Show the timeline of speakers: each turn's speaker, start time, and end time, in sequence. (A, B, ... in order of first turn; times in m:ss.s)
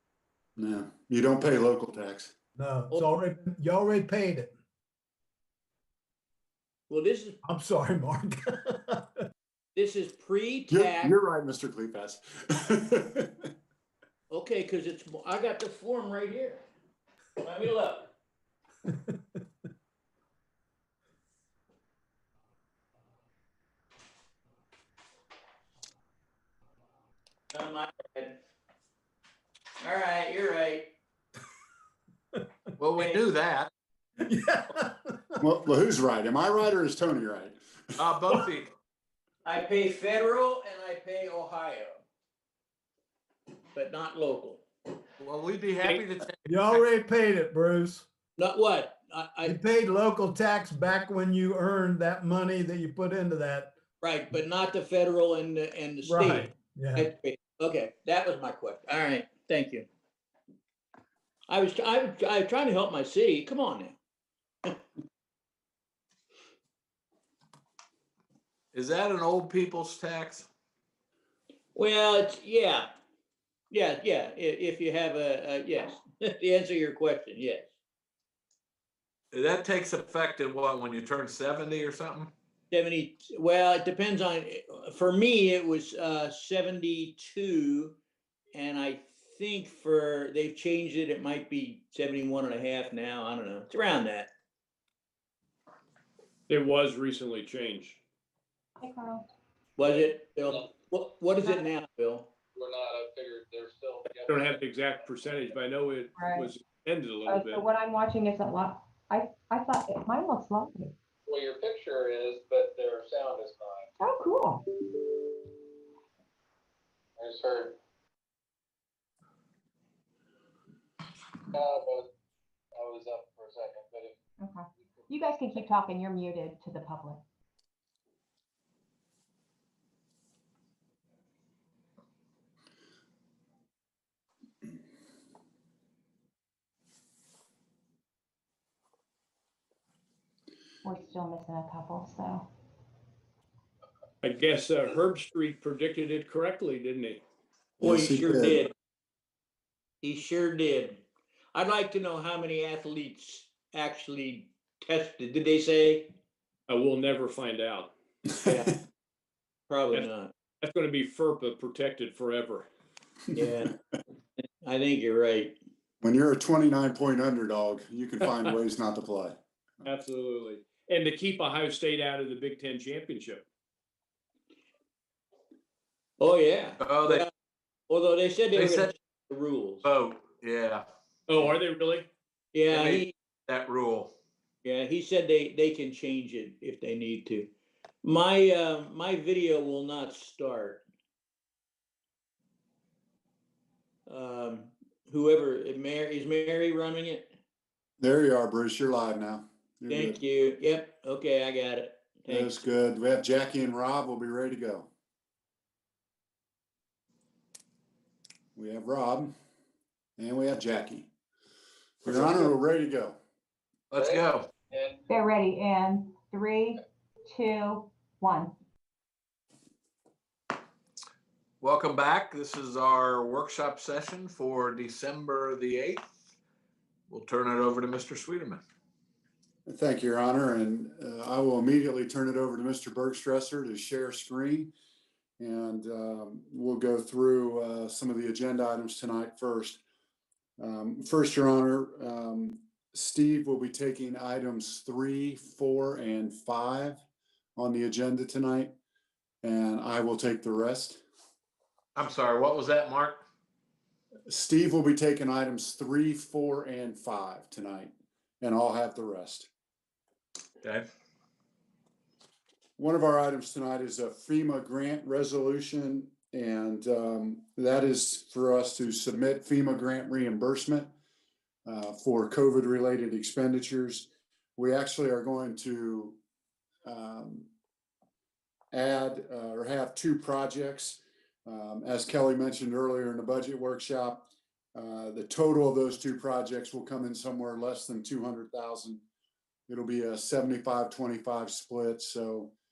0:00.6-0:02.3 A
0:02.6-0:04.6 B
0:06.9-0:07.4 C
0:07.4-0:09.3 B
0:09.8-0:11.2 C
0:10.7-0:13.3 A
0:14.3-0:16.6 C
0:17.4-0:18.1 C
0:27.5-0:28.4 C
0:29.8-0:30.9 C
0:32.8-0:33.7 D
0:33.0-0:33.2 C
0:34.2-0:35.4 B
0:35.4-0:37.6 A
0:38.0-0:38.7 D
0:39.4-0:42.0 C
0:43.7-0:44.6 C
0:45.2-0:46.8 D
0:46.4-0:48.0 B
0:48.4-0:49.6 C
0:49.4-0:53.8 B
0:54.0-0:59.9 C
0:56.0-0:57.1 B
1:01.5-1:04.0 C
1:08.7-1:10.5 D
1:11.8-1:12.9 C
1:13.7-1:17.7 C
1:19.3-1:22.3 D
1:22.7-1:28.0 C
1:28.6-1:34.3 C
1:36.5-1:38.0 E
1:38.8-1:39.3 F
1:39.8-1:42.3 C
1:42.6-1:44.6 G
1:44.3-1:47.7 E
1:46.2-1:46.5 F
1:47.3-1:50.9 F
1:51.3-1:53.9 G
1:54.0-1:54.6 F
1:57.2-1:57.8 G
2:01.5-2:02.1 G
2:02.8-2:04.2 G
2:04.4-2:07.2 F
2:05.1-2:05.6 G
2:20.8-2:22.5 F
2:24.2-2:27.2 E
2:27.8-2:28.7 A
2:27.8-2:28.7 C
2:30.0-2:31.0 C
2:31.6-2:36.1 C
2:36.7-2:37.9 E
2:38.4-2:38.8 C
2:39.7-2:40.3 C
2:40.6-2:42.7 E
2:43.3-2:43.8 C
2:44.6-2:45.6 C
2:46.0-2:49.4 A
2:49.8-2:53.4 E
2:56.2-2:57.3 C
2:56.8-2:57.2 D
2:57.9-2:59.8 C
2:58.5-2:58.9 D
2:59.8-3:00.9 D
3:01.3-3:02.1 E
3:02.5-3:03.1 C
3:02.7-3:04.1 D
3:04.6-3:07.5 C
3:08.0-3:10.8 C
3:14.1-3:17.3 C
3:18.0-3:20.2 A
3:19.9-3:22.6 C
3:22.3-3:24.9 A
3:28.6-3:29.3 A
3:30.2-3:31.1 A
3:32.0-3:33.2 A
3:33.9-3:34.5 D
3:34.0-3:35.0 G
3:35.1-3:38.5 F
3:41.6-3:46.1 D
3:47.1-3:48.6 D
3:49.7-3:54.7 A
3:55.4-3:59.8 A
4:00.6-4:07.0 A
4:07.6-4:08.7 A
4:09.4-4:11.0 A
4:12.0-4:13.2 D
4:14.3-4:19.5 A
4:22.8-4:30.9 A
4:31.7-4:36.2 A
4:36.9-4:37.5 A
4:38.7-4:49.0 A
4:49.7-4:52.5 A